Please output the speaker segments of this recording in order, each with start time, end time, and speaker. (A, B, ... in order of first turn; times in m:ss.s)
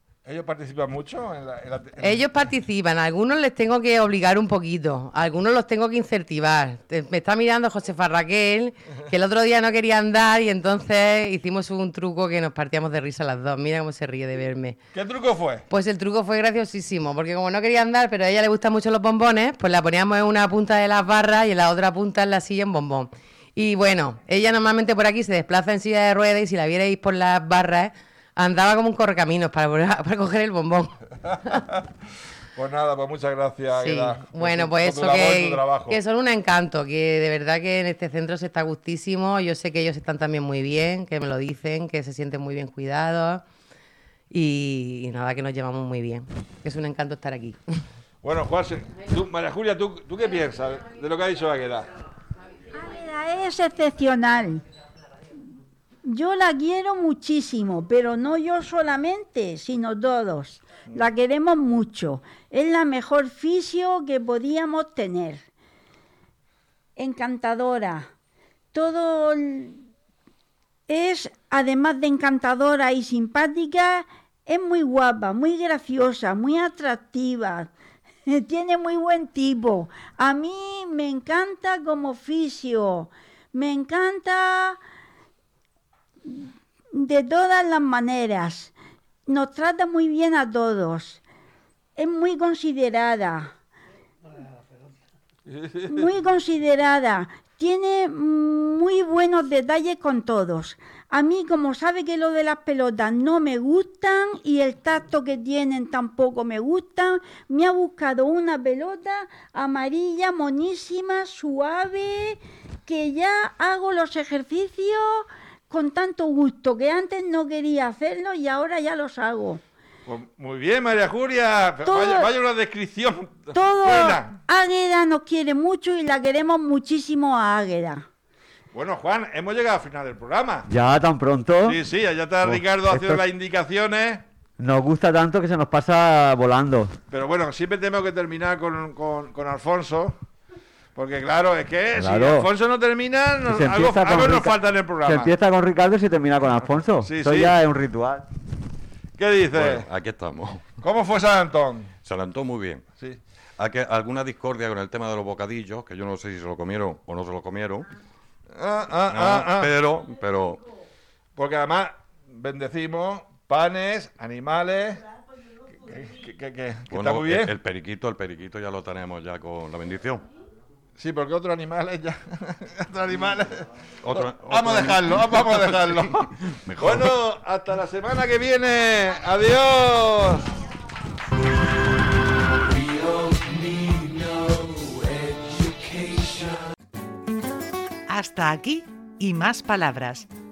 0:00.2-0:02.3 A
0:02.0-0:14.8 B
0:14.9-0:15.7 A
0:15.7-0:31.6 B
0:32.6-0:36.0 A
0:33.8-0:43.4 B
0:44.3-0:47.6 B
0:48.2-0:51.9 A
0:52.7-0:54.6 C
0:56.0-1:05.4 C
1:07.0-1:08.1 C
1:08.7-1:09.8 C
1:10.9-1:17.7 C
1:18.3-1:24.8 C
1:26.3-1:28.7 C
1:29.3-1:31.2 C
1:32.0-1:33.5 C
1:35.5-1:36.0 A
1:35.8-1:59.6 C
2:00.1-2:04.4 A
2:01.8-2:02.4 C
2:03.5-2:08.0 C
2:08.7-2:10.7 A
2:10.7-2:11.8 D
2:11.6-2:14.2 A
2:12.4-2:13.2 D
2:14.6-2:17.0 D
2:17.1-2:20.2 A
2:21.0-2:25.3 A
2:22.0-2:22.5 D
2:23.5-2:28.2 D
2:27.0-2:27.6 A
2:29.2-2:29.9 A
2:29.5-2:30.8 E
2:30.8-2:31.9 A
2:32.0-2:32.8 E
2:33.6-2:37.9 E
2:38.5-2:39.8 A
2:39.1-2:40.6 E
2:41.4-2:45.0 A
2:45.8-2:47.6 A
2:46.9-2:50.2 E
2:51.0-3:00.5 A
2:54.0-2:57.1 E
3:08.1-3:10.3 F